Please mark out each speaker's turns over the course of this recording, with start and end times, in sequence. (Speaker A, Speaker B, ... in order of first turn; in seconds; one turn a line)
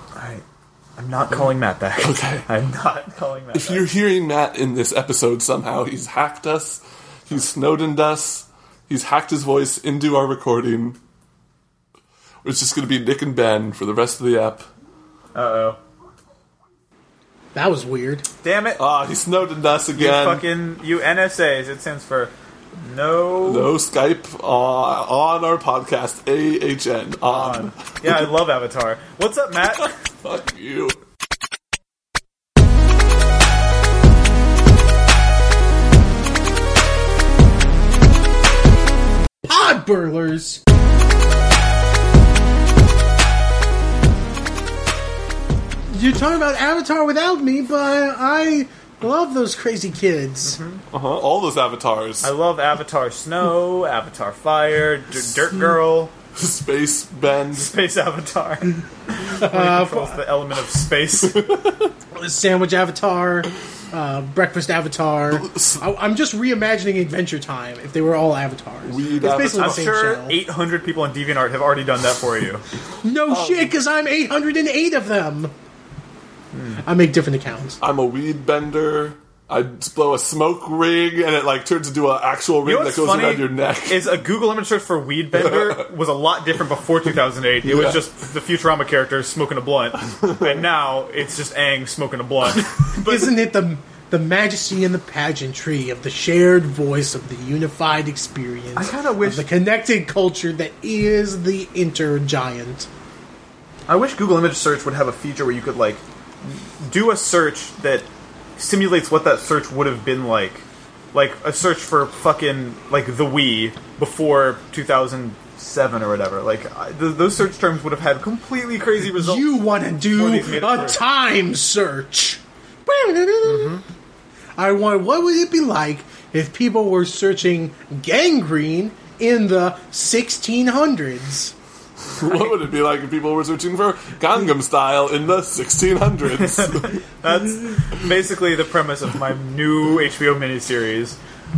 Speaker A: 0.1-0.4
Speaker A: 1.0-3.9
Speaker B: 2.0-2.5
Speaker B: 3.5-11.0
Speaker B: 12.4-14.7
Speaker A: 15.3-15.8
Speaker C: 17.6-18.3
Speaker A: 18.4-18.8
Speaker B: 18.8-20.4
Speaker A: 19.9-23.7
Speaker B: 23.4-28.0
Speaker A: 27.3-29.9
Speaker B: 30.2-31.0
Speaker C: 39.4-40.6
Speaker C: 45.9-50.6
Speaker A: 50.4-50.8
Speaker B: 50.9-52.3
Speaker A: 52.2-56.1
Speaker B: 56.4-57.7
Speaker A: 57.5-61.5
Speaker C: 59.2-60.2
Speaker B: 61.2-61.9
Speaker C: 62.1-70.4
Speaker B: 65.3-65.8
Speaker B: 68.9-69.8
Speaker A: 69.2-72.6
Speaker C: 73.0-75.5
Speaker B: 73.3-73.7
Speaker A: 76.5-76.8
Speaker C: 76.8-77.8
Speaker B: 77.8-84.1
Speaker A: 82.6-93.4
Speaker B: 85.5-85.8
Speaker B: 87.7-88.0
Speaker C: 93.0-102.9
Speaker A: 98.8-99.5
Speaker A: 103.9-121.0
Speaker C: 119.2-123.8
Speaker A: 123.4-123.8
Speaker C: 124.6-131.5
Speaker B: 132.1-137.0
Speaker A: 132.2-132.5
Speaker A: 136.4-141.2